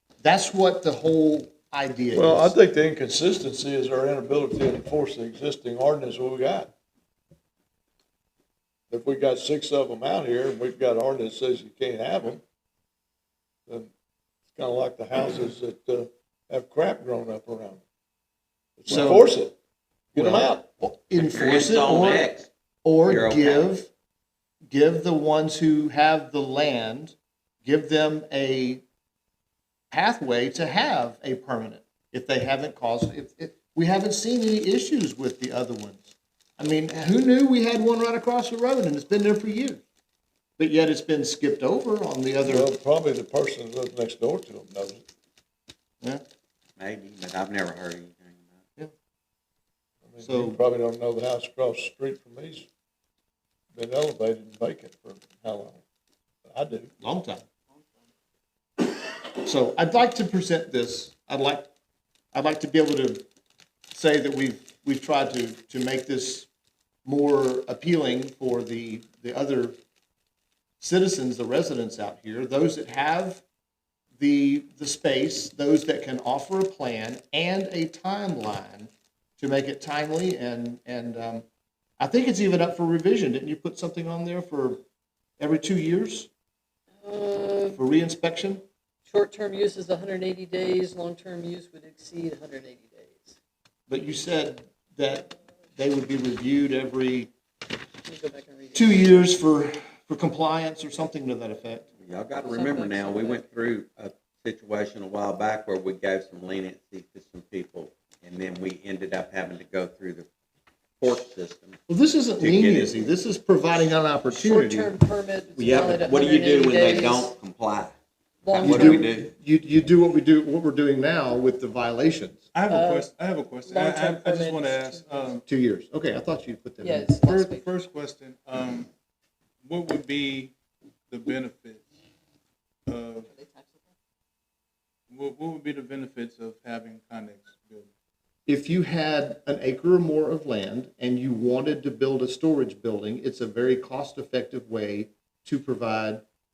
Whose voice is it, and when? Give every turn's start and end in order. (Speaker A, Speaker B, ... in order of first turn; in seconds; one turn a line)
Speaker A: 0.2-2.5
Speaker B: 2.1-6.7
Speaker B: 8.9-12.4
Speaker B: 14.5-17.8
Speaker B: 18.8-19.6
Speaker A: 18.9-19.3
Speaker B: 20.1-20.6
Speaker A: 20.2-22.3
Speaker C: 21.2-22.5
Speaker A: 22.8-23.9
Speaker C: 23.0-23.7
Speaker A: 24.7-28.8
Speaker A: 29.9-39.8
Speaker A: 40.6-42.7
Speaker B: 42.4-45.0
Speaker C: 46.8-48.6
Speaker B: 50.0-52.7
Speaker A: 50.2-50.6
Speaker B: 53.7-55.8
Speaker B: 56.5-56.9
Speaker A: 57.0-57.4
Speaker D: 57.7-58.0
Speaker A: 59.4-61.7
Speaker A: 62.3-63.2
Speaker A: 63.9-66.5
Speaker A: 67.0-69.8
Speaker A: 70.8-73.4
Speaker A: 74.2-81.5
Speaker A: 82.0-84.8
Speaker A: 85.4-86.3
Speaker D: 87.0-87.8
Speaker A: 87.7-88.6
Speaker D: 89.1-93.4
Speaker A: 93.9-97.3
Speaker D: 98.0-99.3
Speaker A: 98.8-101.9
Speaker C: 102.0-110.3
Speaker D: 102.4-103.5
Speaker C: 111.0-111.8
Speaker A: 111.9-114.9
Speaker C: 112.4-113.0
Speaker D: 114.3-117.3
Speaker C: 115.6-118.0
Speaker D: 118.4-119.1
Speaker C: 118.5-119.3
Speaker A: 118.5-122.4
Speaker E: 122.5-125.4
Speaker D: 122.7-123.1
Speaker D: 123.7-125.4
Speaker A: 125.5-127.3
Speaker D: 126.8-127.7
Speaker E: 127.3-128.9
Speaker E: 129.6-130.5
Speaker E: 131.1-131.8
Speaker E: 132.9-133.3
Speaker D: 133.2-133.9
Speaker E: 135.1-137.9
Speaker A: 138.5-146.2